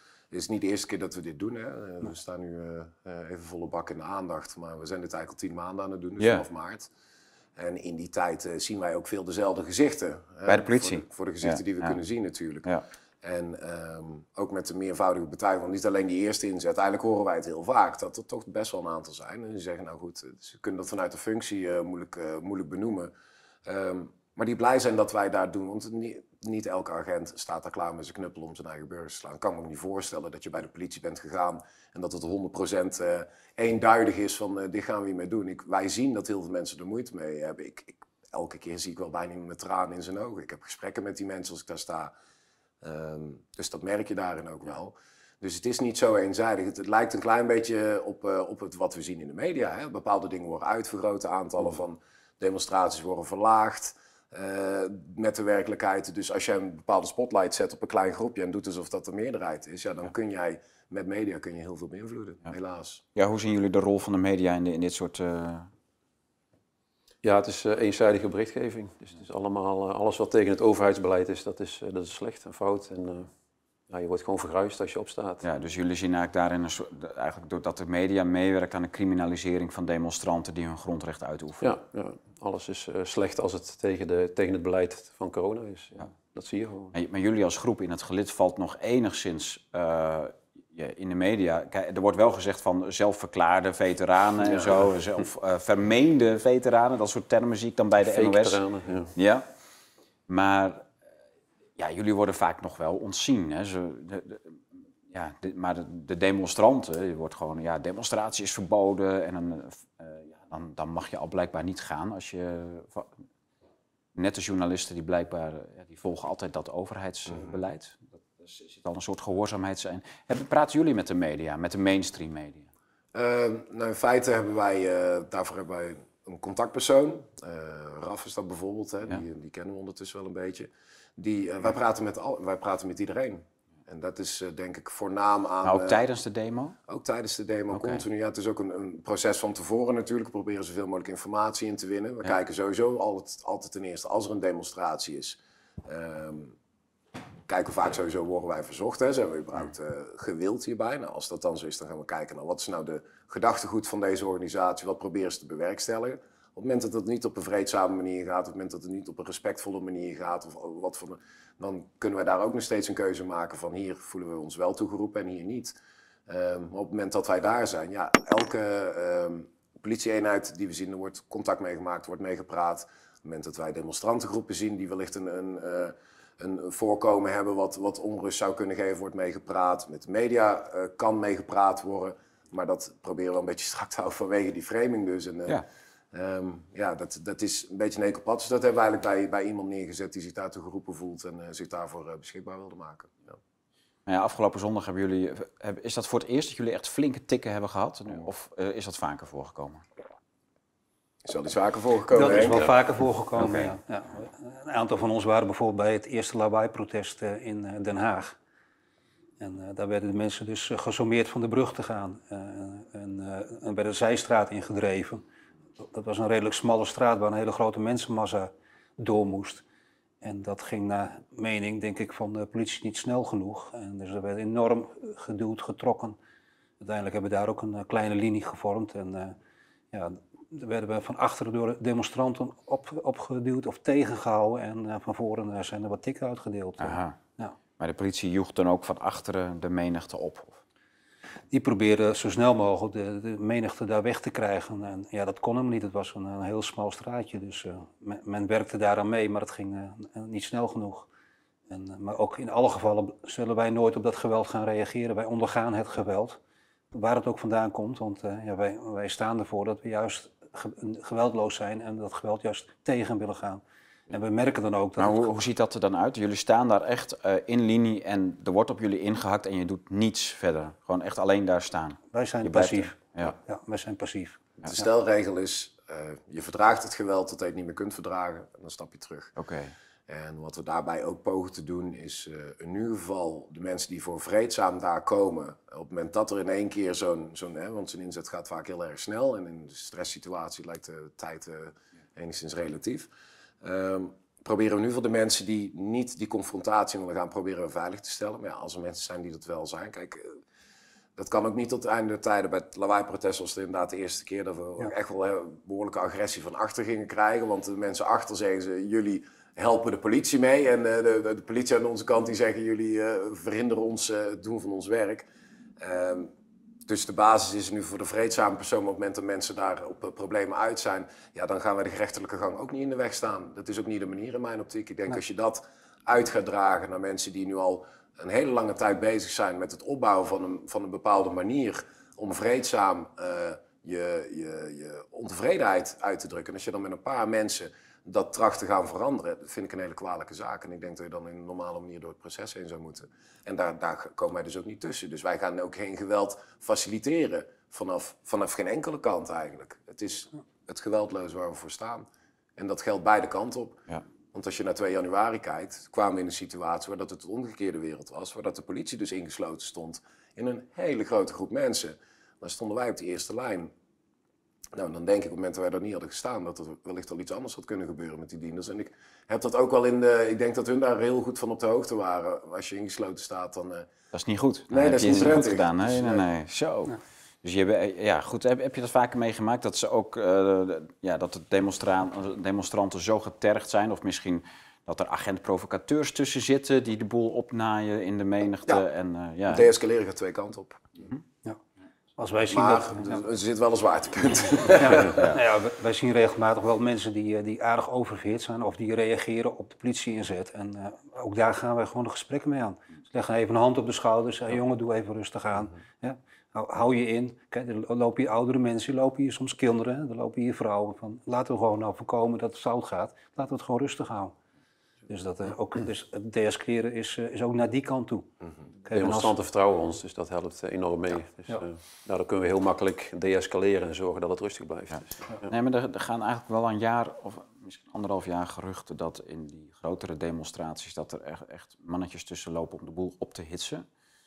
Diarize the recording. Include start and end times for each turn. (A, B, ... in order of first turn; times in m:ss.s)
0:00.3-0:06.9 A
0:06.2-0:06.4 B
0:07.6-0:12.7 A
0:10.4-0:12.0 B
0:13.2-0:23.1 A
0:23.6-0:42.1 A
0:42.8-1:03.0 A
1:03.2-1:05.7 B
1:07.2-1:13.3 C
1:13.9-1:15.4 C
1:15.4-1:21.7 B
1:21.6-1:26.9 C
1:26.9-1:38.6 B
1:38.0-1:39.1 C
1:39.1-1:39.4 B
1:40.3-1:40.9 B
1:41.8-1:44.6 B
1:45.1-1:53.1 B
1:54.1-2:02.7 B
2:03.1-2:16.0 A
2:15.6-2:16.8 B
2:16.9-2:26.5 A
2:17.7-2:18.0 B
2:27.5-2:45.7 A
2:46.3-3:05.6 A
3:06.1-3:13.4 A
3:14.0-3:19.8 B
3:21.2-3:22.7 A
3:22.1-3:28.4 D
3:23.4-3:23.7 B
3:29.4-3:35.2 D
3:35.8-3:39.6 D
3:40.2-3:46.2 D
3:46.8-3:49.4 D
3:49.9-3:57.5 D
3:56.8-3:57.2 B
3:57.8-4:00.6 B
4:01.5-4:11.1 D
4:11.7-4:16.4 D
4:16.9-4:25.3 D
4:25.0-4:33.3 B
4:32.1-4:34.8 D
4:34.6-4:39.3 A
4:39.4-4:39.7 B
4:40.1-4:53.1 A
4:53.6-5:00.4 A
5:01.2-5:15.2 A
5:15.8-5:16.3 A
5:16.9-5:52.0 A
5:52.6-5:53.8 A
5:54.3-6:03.7 A
6:04.7-6:13.9 A
6:14.1-6:29.7 B
6:14.7-6:16.2 A
6:29.5-6:30.9 A
6:32.2-6:33.2 D
6:32.5-6:35.3 A
6:34.7-6:54.3 D
6:35.1-6:35.4 B
6:55.1-6:58.3 D
6:58.8-6:59.3 D
6:58.9-7:05.4 C
7:04.9-7:13.8 B